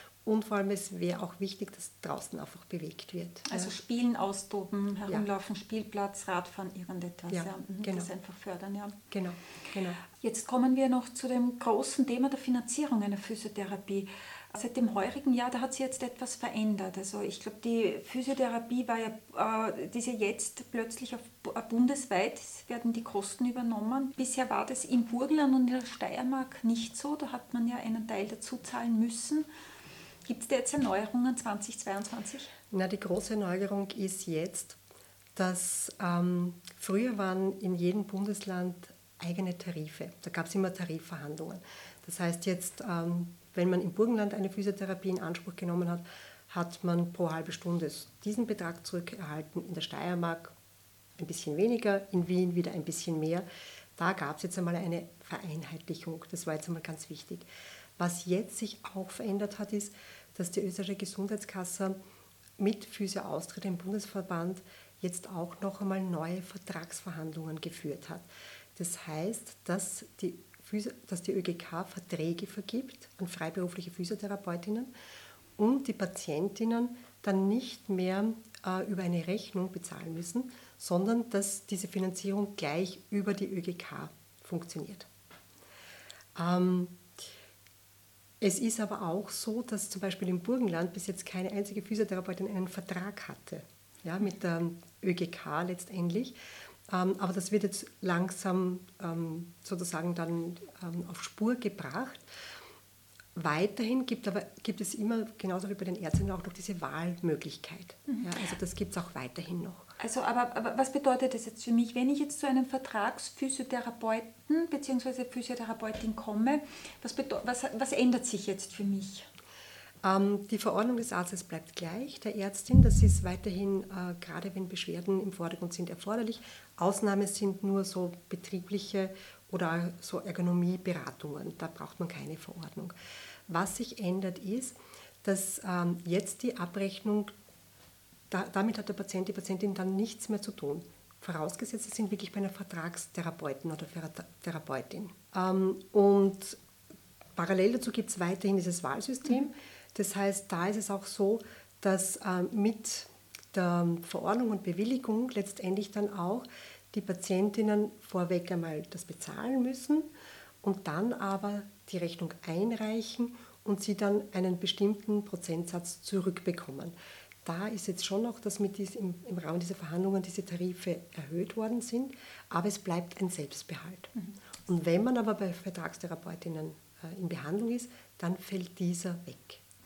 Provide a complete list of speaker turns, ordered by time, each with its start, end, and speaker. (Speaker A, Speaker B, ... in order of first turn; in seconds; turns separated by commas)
Speaker A: 0.2-3.7, Speaker B: 3.5-9.0, Speaker A: 7.3-8.1, Speaker A: 9.1-10.0, Speaker B: 10.1-29.5, Speaker B: 30.3-32.5, Speaker A: 32.7-34.8, Speaker A: 35.4-50.5, Speaker A: 51.2-53.5, Speaker A: 54.0-57.5, Speaker A: 58.0-62.0, Speaker A: 62.6-74.9, Speaker A: 75.6-85.1, Speaker A: 86.4-87.1, Speaker A: 88.4-96.4, Speaker A: 96.9-102.3, Speaker A: 103.3-109.9, Speaker B: 110.0-119.3, Speaker A: 120.0-132.9, Speaker A: 133.5-137.3, Speaker A: 138.3-146.6, Speaker A: 147.4-160.1, Speaker A: 160.6-166.9, Speaker A: 167.4-174.1, Speaker A: 174.7-179.6